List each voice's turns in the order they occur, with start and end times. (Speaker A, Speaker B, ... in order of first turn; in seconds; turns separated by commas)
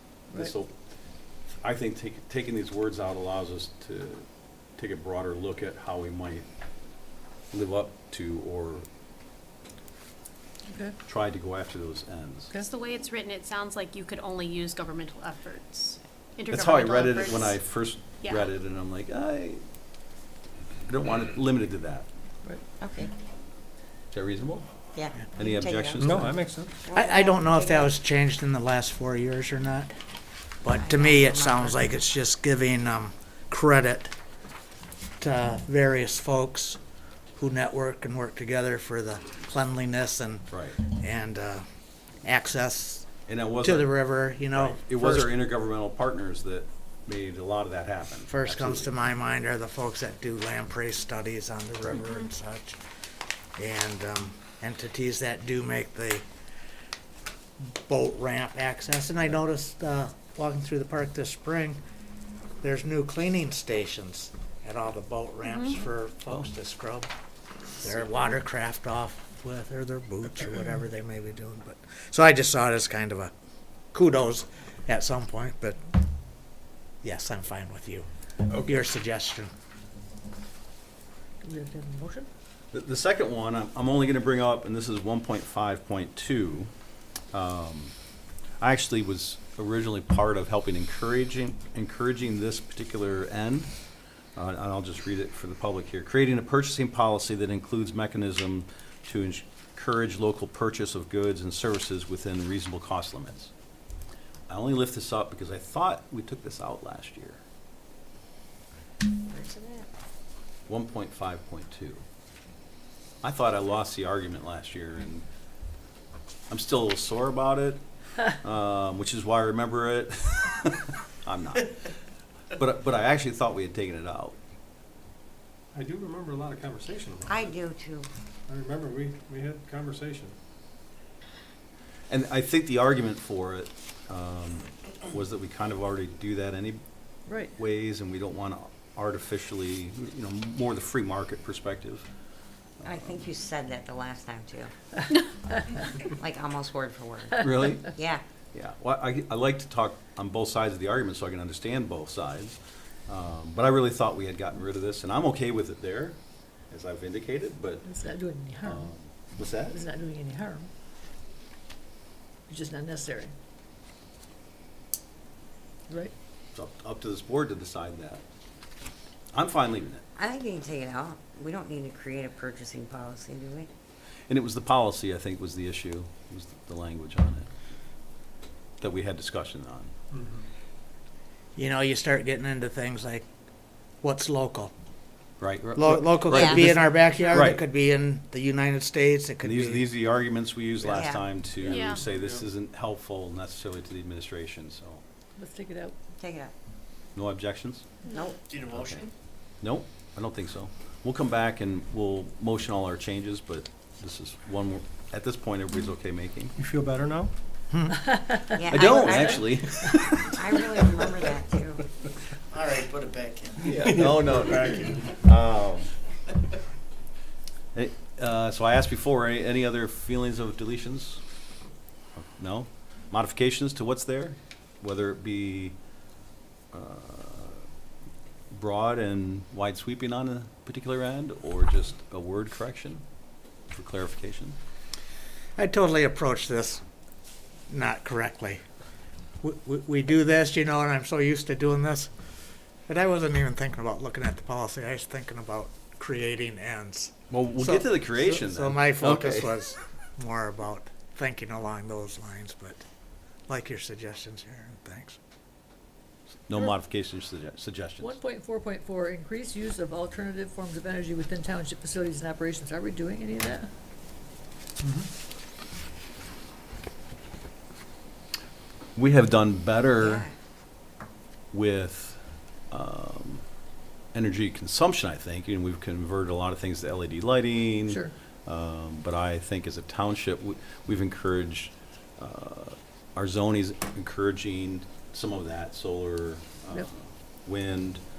Speaker A: 0.3-0.7, Speaker A: 1.6-6.5, Speaker A: 7.5-8.9, Speaker B: 10.7-10.9, Speaker A: 11.1-12.5, Speaker C: 12.6-17.6, Speaker A: 16.5-19.6, Speaker C: 18.2-18.5, Speaker A: 20.9-22.1, Speaker D: 22.8-23.1, Speaker A: 24.1-24.7, Speaker D: 24.9-26.2, Speaker A: 25.3-26.4, Speaker E: 26.0-26.8, Speaker D: 26.8-27.9, Speaker F: 26.9-29.9, Speaker F: 30.6-34.1, Speaker D: 30.7-31.8, Speaker F: 35.2-36.8, Speaker F: 37.4-41.6, Speaker A: 40.5-40.8, Speaker F: 42.2-43.1, Speaker A: 43.3-44.0, Speaker F: 43.6-45.3, Speaker A: 44.5-48.9, Speaker F: 48.3-52.8, Speaker F: 53.6-56.2, Speaker F: 57.6-61.8, Speaker F: 62.6-67.1, Speaker C: 65.5-65.8, Speaker F: 67.8-73.3, Speaker F: 73.9-75.8, Speaker F: 77.0-79.5, Speaker B: 81.4-82.3, Speaker A: 82.7-86.7, Speaker A: 87.3-87.9, Speaker A: 88.6-93.7, Speaker A: 94.4-103.5, Speaker A: 104.5-107.4, Speaker D: 109.3-109.9, Speaker A: 110.7-112.0, Speaker A: 113.2-115.2, Speaker A: 116.5-121.9, Speaker A: 122.5-124.4, Speaker E: 125.7-127.5, Speaker D: 127.2-128.1, Speaker E: 128.5-130.4, Speaker A: 132.1-136.8, Speaker B: 137.3-137.5, Speaker A: 137.6-142.1, Speaker A: 142.8-143.2, Speaker D: 142.8-144.7, Speaker D: 146.0-148.2, Speaker A: 147.4-147.9, Speaker A: 148.5-157.8, Speaker B: 157.8-158.9, Speaker A: 158.6-159.8, Speaker B: 159.6-160.7, Speaker B: 162.5-163.3, Speaker A: 166.5-168.2, Speaker A: 169.3-170.1, Speaker D: 170.2-173.7, Speaker A: 174.3-177.5, Speaker A: 178.8-179.9, Speaker E: 180.1-180.5, Speaker F: 181.6-183.3, Speaker F: 184.0-184.7, Speaker A: 185.4-187.6, Speaker F: 185.8-189.9, Speaker D: 186.3-186.7, Speaker A: 189.4-195.0, Speaker D: 190.8-191.9, Speaker C: 191.7-192.0, Speaker B: 195.4-196.0, Speaker D: 196.2-196.5, Speaker A: 197.2-197.9, Speaker D: 198.1-198.4, Speaker G: 198.6-198.9, Speaker A: 198.7-199.1, Speaker A: 199.6-206.6, Speaker E: 206.6-207.3, Speaker F: 207.7-208.0, Speaker D: 208.5-209.7, Speaker A: 208.7-210.5, Speaker D: 210.3-211.8, Speaker G: 212.5-213.6, Speaker A: 213.7-215.9, Speaker E: 213.7-214.1, Speaker G: 214.3-215.0, Speaker A: 217.8-221.2, Speaker A: 222.2-225.8, Speaker A: 226.7-227.6, Speaker A: 228.5-233.0, Speaker A: 233.7-234.6, Speaker F: 235.6-236.8, Speaker F: 237.7-238.6, Speaker F: 239.4-242.1, Speaker F: 242.9-252.8, Speaker A: 247.3-249.6, Speaker F: 253.5-255.2, Speaker A: 256.5-258.2, Speaker B: 258.0-263.7, Speaker A: 269.0-270.3, Speaker D: 270.0-270.3, Speaker A: 271.5-273.4, Speaker A: 274.1-288.0, Speaker B: 277.9-278.1